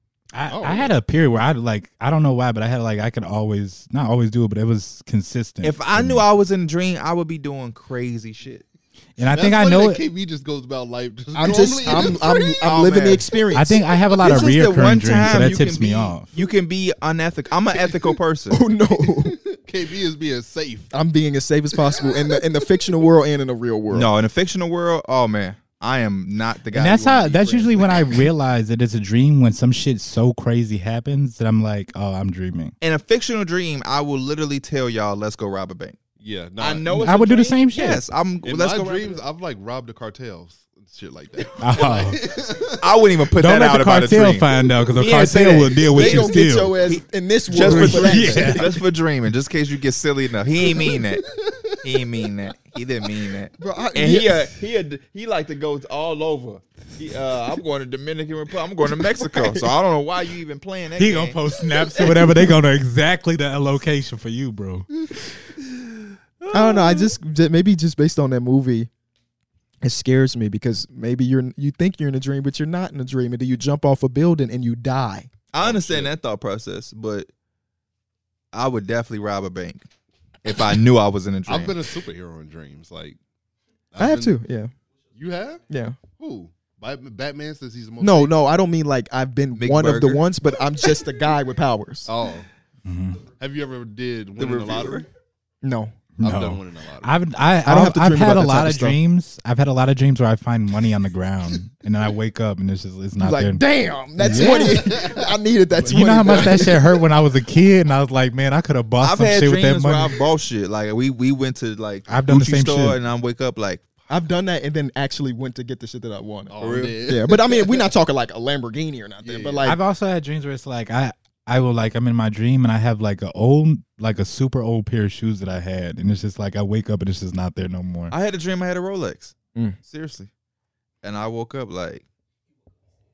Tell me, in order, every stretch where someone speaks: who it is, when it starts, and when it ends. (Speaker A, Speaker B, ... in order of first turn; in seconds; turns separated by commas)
Speaker A: 0.3-6.2, Speaker B: 0.5-0.9, Speaker C: 5.6-8.6, Speaker A: 9.2-10.0, Speaker B: 9.2-12.5, Speaker D: 11.3-15.6, Speaker C: 12.0-13.3, Speaker A: 13.5-16.3, Speaker C: 14.2-18.6, Speaker D: 18.5-19.4, Speaker B: 19.0-20.9, Speaker D: 20.9-24.1, Speaker B: 21.9-22.2, Speaker C: 23.9-28.3, Speaker A: 26.7-32.7, Speaker C: 32.8-36.0, Speaker B: 36.2-37.1, Speaker C: 36.6-39.2, Speaker A: 36.9-38.0, Speaker B: 38.4-42.8, Speaker A: 41.6-42.2, Speaker C: 42.8-44.5, Speaker A: 43.4-46.7, Speaker D: 45.0-48.7, Speaker C: 45.8-51.2, Speaker A: 47.6-48.7, Speaker B: 50.6-52.0, Speaker C: 51.8-62.3, Speaker D: 53.6-54.5, Speaker D: 59.1-59.6, Speaker A: 61.0-64.9, Speaker C: 66.4-67.1, Speaker D: 66.5-68.9, Speaker D: 69.8-75.3, Speaker C: 75.5-77.3, Speaker B: 75.6-76.1, Speaker C: 78.5-79.9, Speaker C: 80.4-81.8, Speaker B: 81.5-83.2, Speaker B: 83.9-84.4, Speaker D: 84.0-84.7, Speaker B: 85.1-85.6, Speaker D: 85.7-86.0, Speaker B: 86.2-88.3, Speaker D: 88.0-92.1, Speaker C: 89.5-90.2, Speaker B: 92.0-92.5, Speaker A: 92.8-93.3, Speaker B: 93.4-95.1, Speaker C: 94.3-95.1, Speaker D: 95.6-95.9, Speaker A: 96.2-103.6, Speaker B: 96.2-97.2, Speaker D: 97.6-99.0, Speaker D: 103.2-106.8, Speaker A: 104.2-104.9, Speaker B: 104.3-105.3, Speaker A: 105.8-110.1, Speaker B: 106.3-106.8, Speaker C: 109.0-113.8, Speaker A: 112.1-113.0, Speaker D: 114.1-119.8, Speaker B: 116.5-117.9, Speaker C: 116.6-117.0, Speaker B: 119.2-119.7, Speaker A: 119.6-128.1, Speaker C: 128.1-130.3, Speaker C: 131.0-132.1